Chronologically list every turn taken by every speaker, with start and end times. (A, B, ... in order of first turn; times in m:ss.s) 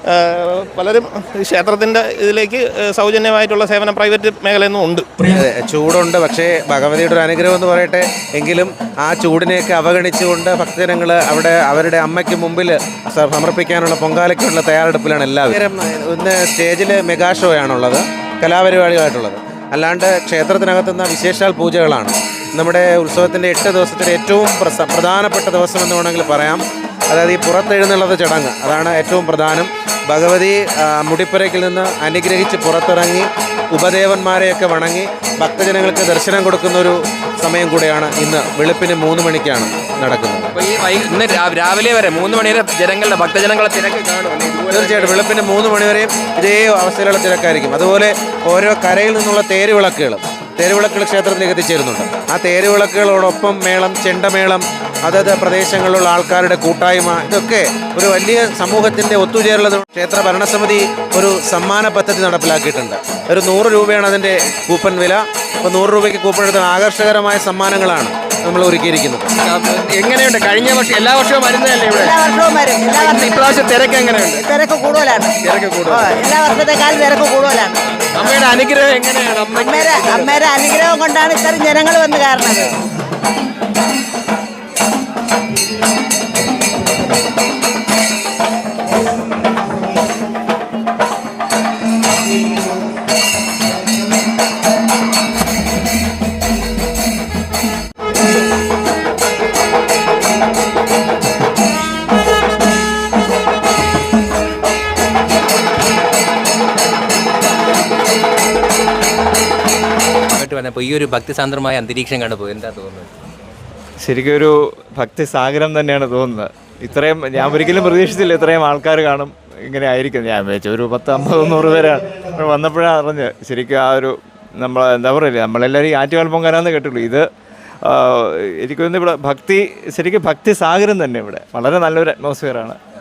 0:00.2-0:05.1 A
0:05.3-0:40.5 B
0:40.5-0:45.2 C
0:44.7-1:09.3 B
1:09.4-1:12.2 C
1:12.0-1:13.5 D
1:12.9-1:14.5 C
1:14.4-1:15.3 D
1:15.4-1:16.2 C
1:15.9-1:17.7 D
1:18.1-1:20.4 C
1:19.5-1:22.6 D
1:50.3-1:53.1 C
1:54.0-2:07.3 E
2:07.8-2:12.8 E